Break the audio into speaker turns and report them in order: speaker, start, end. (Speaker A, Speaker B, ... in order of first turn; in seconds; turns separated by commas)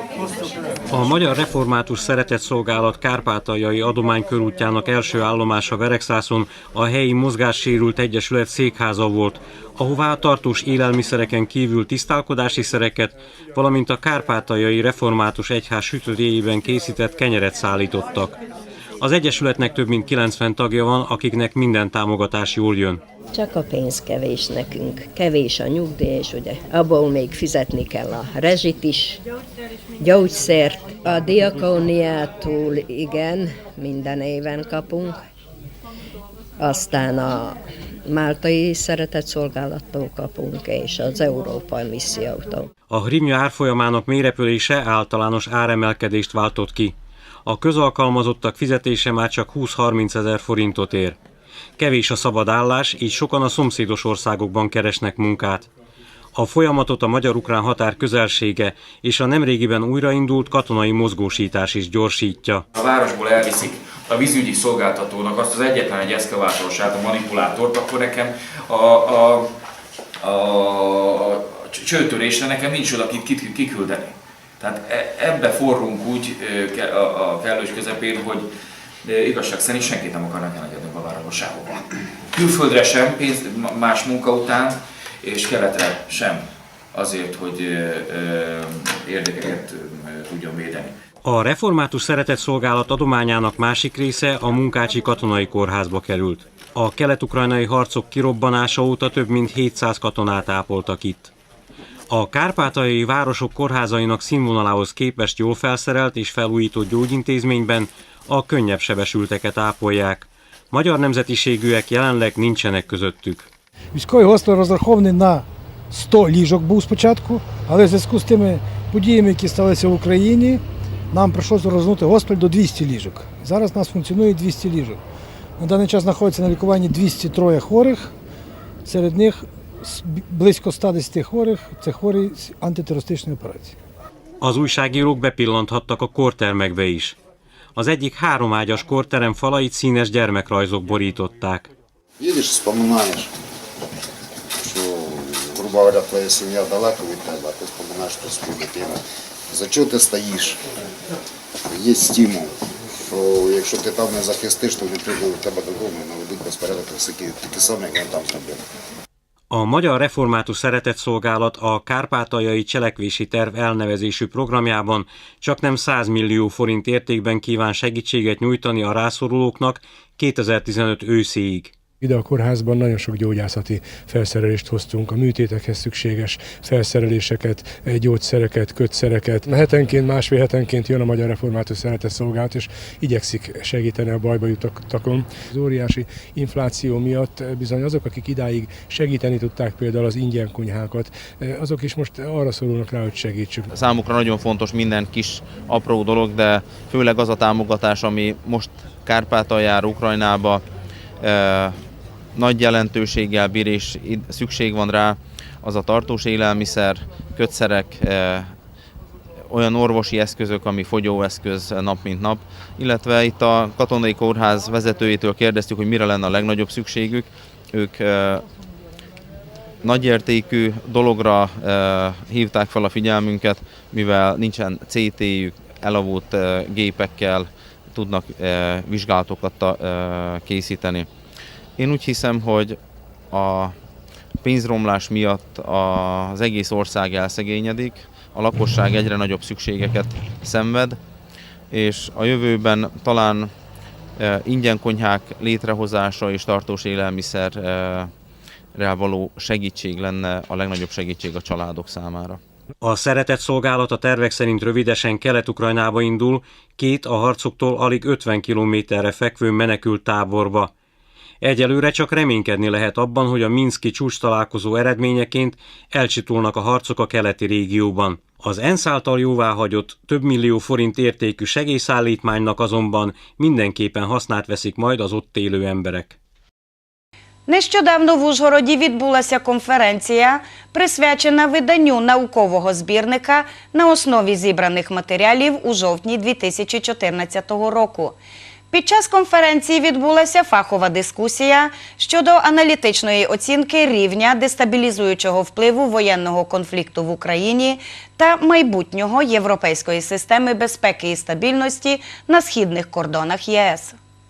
Speaker A: 0.9-18.4, Speaker A: 19.0-23.0, Speaker B: 23.3-29.2, Speaker B: 30.0-35.2, Speaker B: 36.6-42.7, Speaker A: 42.9-51.2, Speaker A: 51.8-55.7, Speaker A: 56.4-62.6, Speaker C: 62.7-69.5, Speaker C: 70.2-78.5, Speaker C: 79.0-91.0, Speaker A: 91.2-101.3, Speaker A: 102.1-113.5, Speaker D: 113.9-125.0, Speaker D: 125.6-128.1, Speaker D: 128.8-133.8, Speaker A: 134.4-137.2, Speaker A: 137.8-141.7, Speaker E: 142.2-143.3, Speaker E: 144.6-150.6, Speaker E: 151.7-158.6, Speaker A: 159.5-171.7, Speaker F: 172.0-193.7, Speaker G: 193.7-200.6, Speaker G: 201.2-201.8, Speaker G: 202.3-208.5, Speaker G: 209.5-218.4, Speaker G: 219.8-231.1, Speaker G: 231.8-232.8, Speaker G: 233.3-233.8, Speaker G: 234.4-241.0, Speaker G: 241.7-243.5, Speaker G: 244.2-248.1, Speaker G: 248.8-252.4, Speaker A: 252.8-260.7, Speaker A: 261.4-276.1, Speaker H: 277.5-288.2, Speaker H: 288.7-303.9